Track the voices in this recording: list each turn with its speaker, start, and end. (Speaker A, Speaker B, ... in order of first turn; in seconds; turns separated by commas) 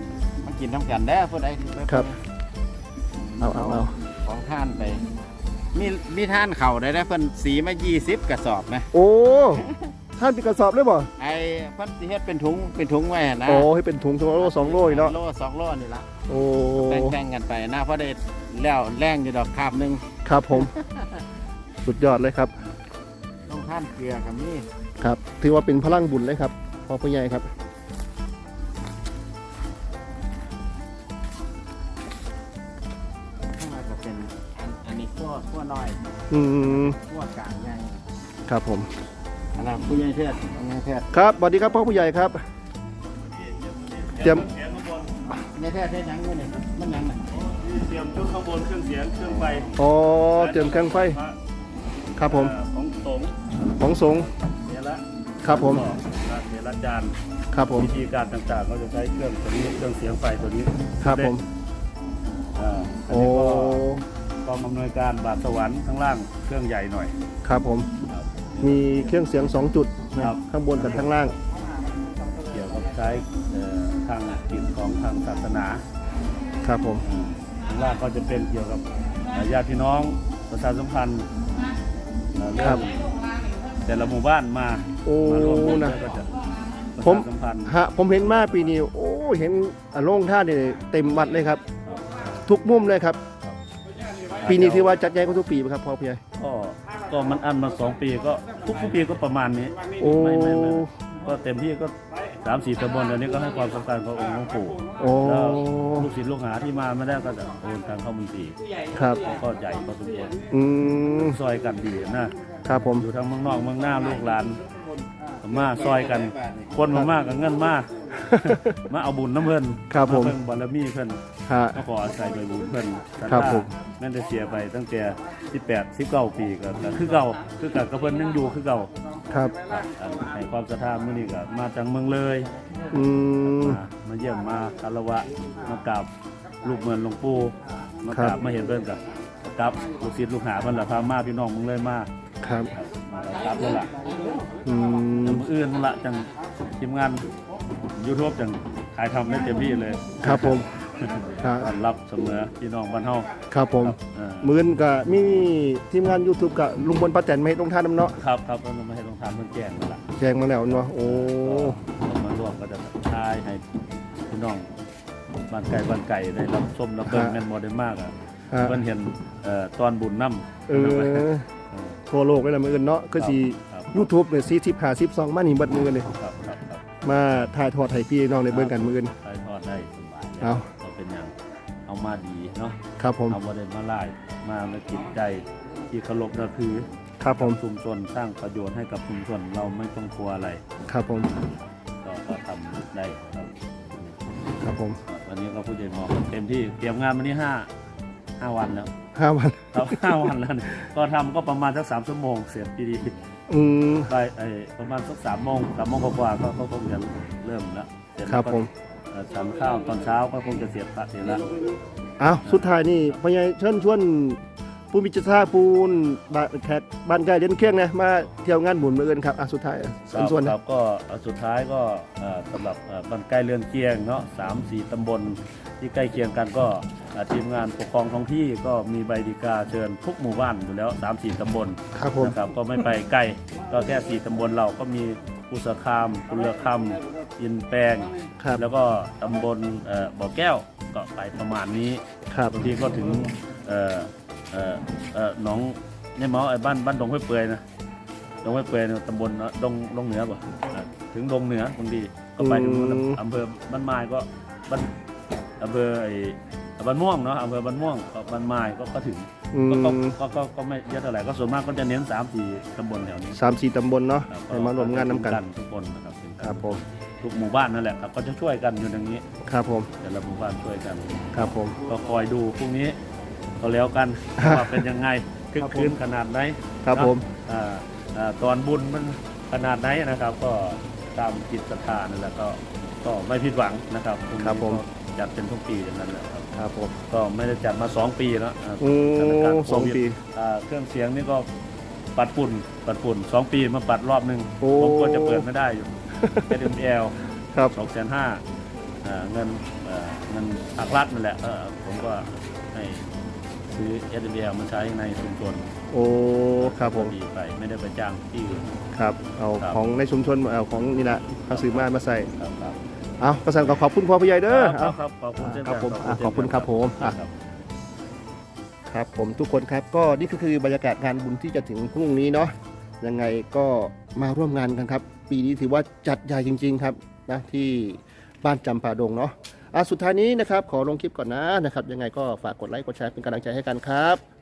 Speaker A: 0.4-2.2, Speaker A: 3.2-5.0, Speaker B: 3.4-3.9, Speaker A: 5.7-8.9, Speaker B: 8.9-9.6, Speaker B: 10.2-11.1, Speaker A: 11.2-13.7, Speaker B: 13.4-15.2, Speaker A: 14.3-16.1, Speaker B: 16.3-17.1, Speaker A: 16.8-21.2, Speaker B: 20.2-20.7, Speaker B: 21.8-22.5, Speaker A: 23.5-24.6, Speaker B: 25.0-27.5, Speaker A: 33.5-36.0, Speaker B: 36.3-37.0, Speaker A: 36.6-38.0, Speaker B: 38.5-38.9, Speaker A: 39.5-41.1, Speaker B: 41.1-42.4, Speaker C: 43.3-45.1, Speaker B: 44.2-44.5, Speaker A: 45.5-47.4, Speaker C: 47.4-49.7, Speaker B: 49.8-51.2, Speaker C: 50.3-51.4, Speaker B: 52.2-52.5, Speaker C: 52.2-53.3, Speaker B: 53.8-54.3, Speaker C: 54.0-57.1, Speaker B: 55.4-55.9, Speaker B: 57.5-57.9, Speaker C: 57.8-61.3, Speaker B: 61.0-61.4, Speaker C: 62.5-63.9, Speaker B: 63.1-64.0, Speaker C: 64.4-67.1, Speaker B: 67.4-67.9, Speaker C: 68.1-68.8, Speaker B: 68.6-71.3, Speaker C: 70.2-71.1, Speaker C: 72.5-75.8, Speaker B: 76.6-77.0, Speaker C: 77.0-81.3, Speaker C: 82.4-83.1, Speaker B: 82.6-82.8, Speaker C: 83.8-86.3, Speaker B: 85.0-86.0, Speaker C: 87.0-88.7, Speaker B: 87.0-91.6, Speaker C: 91.8-92.4, Speaker B: 92.4-93.2, Speaker C: 94.4-94.9, Speaker B: 94.4-96.2, Speaker C: 96.4-108.6, Speaker B: 100.0-100.9, Speaker B: 105.0-106.1, Speaker B: 108.9-109.2, Speaker C: 109.2-110.4, Speaker B: 110.5-111.4, Speaker C: 111.2-112.3, Speaker B: 112.7-113.0, Speaker C: 112.9-114.6, Speaker C: 115.4-121.2, Speaker A: 115.4-116.8, Speaker B: 118.3-118.8, Speaker B: 119.9-120.3, Speaker B: 121.5-121.8, Speaker C: 121.7-128.9, Speaker B: 123.3-123.7, Speaker B: 129.3-129.6, Speaker C: 129.7-132.5, Speaker B: 132.9-133.8, Speaker C: 133.4-136.1, Speaker C: 136.6-142.1, Speaker B: 138.1-138.4, Speaker B: 142.4-142.7, Speaker C: 142.7-143.9, Speaker A: 144.1-144.4, Speaker B: 144.6-145.4, Speaker C: 145.2-147.3, Speaker C: 148.0-153.3, Speaker B: 150.2-150.7, Speaker B: 151.4-151.7, Speaker B: 153.5-158.2, Speaker C: 153.8-154.5, Speaker C: 158.2-160.0, Speaker B: 160.2-161.8, Speaker C: 160.7-163.6, Speaker C: 164.3-164.7, Speaker C: 165.5-172.0, Speaker B: 167.1-167.4, Speaker B: 168.5-168.8, Speaker B: 170.7-171.5, Speaker B: 172.1-176.1, Speaker C: 173.2-174.1, Speaker C: 176.1-176.8, Speaker B: 177.0-179.1, Speaker C: 178.5-181.3, Speaker B: 180.4-180.7, Speaker C: 181.9-182.8, Speaker B: 183.0-183.4, Speaker C: 183.3-190.6, Speaker B: 187.2-187.6, Speaker B: 190.9-191.3, Speaker C: 192.0-194.2, Speaker B: 194.6-195.0, Speaker C: 195.1-197.7, Speaker C: 198.4-198.9, Speaker B: 199.1-200.3, Speaker C: 199.7-203.1, Speaker B: 203.5-204.1, Speaker C: 204.1-211.5, Speaker B: 208.3-208.7, Speaker B: 212.2-214.4, Speaker C: 212.4-212.7, Speaker B: 214.9-220.5, Speaker C: 220.1-247.6, Speaker B: 231.9-232.4, Speaker B: 242.3-242.6, Speaker C: 248.4-254.9, Speaker B: 252.4-253.2, Speaker C: 255.6-263.4, Speaker B: 259.5-260.1, Speaker B: 263.3-265.4, Speaker C: 264.3-269.2, Speaker B: 266.4-266.8, Speaker B: 269.4-269.9, Speaker C: 270.0-271.3, Speaker B: 271.3-271.8, Speaker C: 271.8-272.9, Speaker C: 273.6-286.5, Speaker B: 274.4-274.8, Speaker B: 275.6-276.0, Speaker B: 276.8-277.2, Speaker B: 284.4-284.8, Speaker B: 286.6-287.0, Speaker C: 287.1-291.4, Speaker B: 288.8-290.2, Speaker C: 292.1-295.9, Speaker B: 294.6-295.5, Speaker B: 296.2-296.6, Speaker C: 296.5-298.4, Speaker C: 299.0-303.0, Speaker C: 303.7-305.7, Speaker B: 305.9-307.1, Speaker C: 306.6-308.7, Speaker B: 308.9-312.3, Speaker C: 311.5-311.8, Speaker C: 312.4-312.8, Speaker B: 313.2-317.2, Speaker C: 314.5-317.3, Speaker B: 318.9-334.2